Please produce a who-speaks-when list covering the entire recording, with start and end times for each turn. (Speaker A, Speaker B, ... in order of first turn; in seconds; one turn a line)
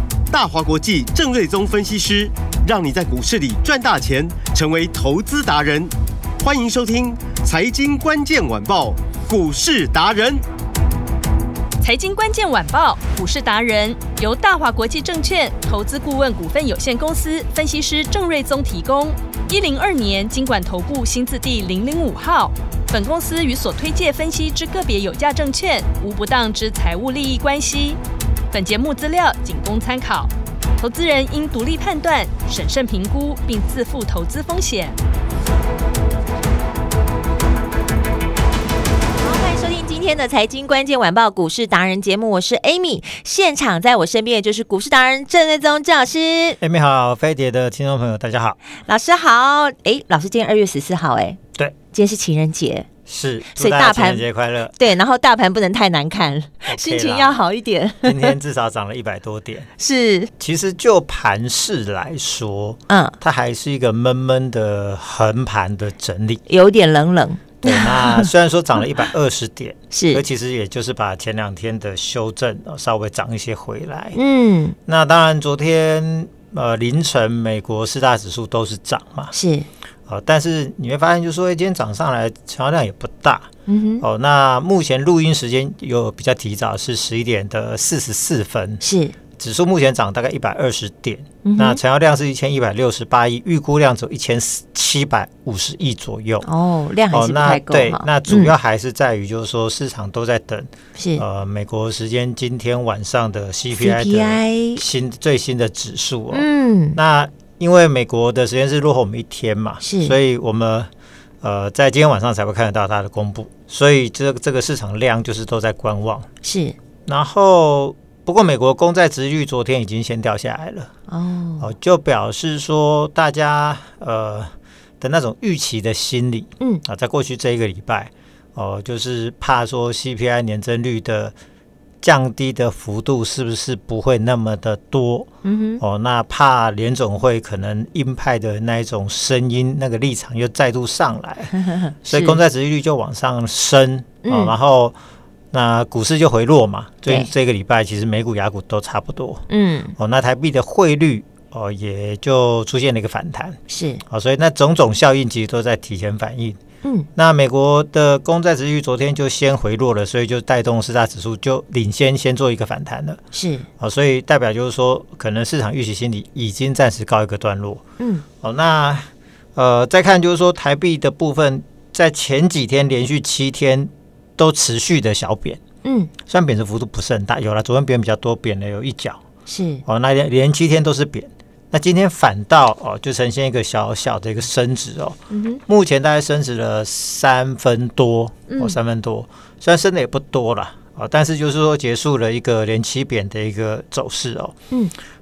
Speaker A: 0.3-10.4
Speaker B: 11.8-28.0
Speaker B: 28.5-35.0
Speaker C: 39.2-46.6
Speaker D: 46.6-48.6
Speaker C: 48.8-51.4
Speaker C: 51.9-52.9
Speaker D: 53.0-54.8
Speaker C: 53.5-58.3
Speaker D: 56.6-57.4
Speaker D: 58.0-59.7
Speaker C: 59.8-60.3
Speaker D: 60.4-66.4
Speaker C: 62.9-63.2
Speaker C: 66.5-68.3
Speaker D: 67.6-74.2
Speaker C: 69.9-70.2
Speaker C: 74.1-74.8
Speaker D: 74.8-79.3
Speaker C: 79.3-79.7
Speaker D: 80.1-83.5
Speaker C: 83.7-84.0
Speaker D: 84.0-88.8
Speaker C: 88.8-89.1
Speaker D: 89.4-96.5
Speaker C: 91.4-91.8
Speaker C: 96.4-98.5
Speaker D: 97.1-110.9
Speaker C: 101.0-101.2
Speaker C: 103.7-104.8
Speaker C: 106.3-107.0
Speaker C: 109.8-110.2
Speaker D: 111.4-116.3
Speaker C: 116.4-116.8
Speaker D: 117.1-120.9
Speaker C: 121.1-121.7
Speaker D: 121.6-131.3
Speaker D: 132.0-144.9
Speaker C: 135.4-135.8
Speaker C: 141.7-142.4
Speaker C: 144.2-144.5
Speaker D: 145.5-149.4
Speaker C: 149.5-149.9
Speaker D: 150.0-156.6
Speaker C: 153.7-154.0
Speaker C: 156.8-157.1
Speaker D: 157.2-163.2
Speaker C: 163.3-163.7
Speaker D: 163.8-167.8
Speaker C: 168.0-168.2
Speaker D: 168.4-175.6
Speaker C: 175.8-176.1
Speaker D: 176.2-179.2
Speaker C: 179.4-179.8
Speaker D: 179.8-194.6
Speaker C: 185.3-185.6
Speaker C: 188.5-188.8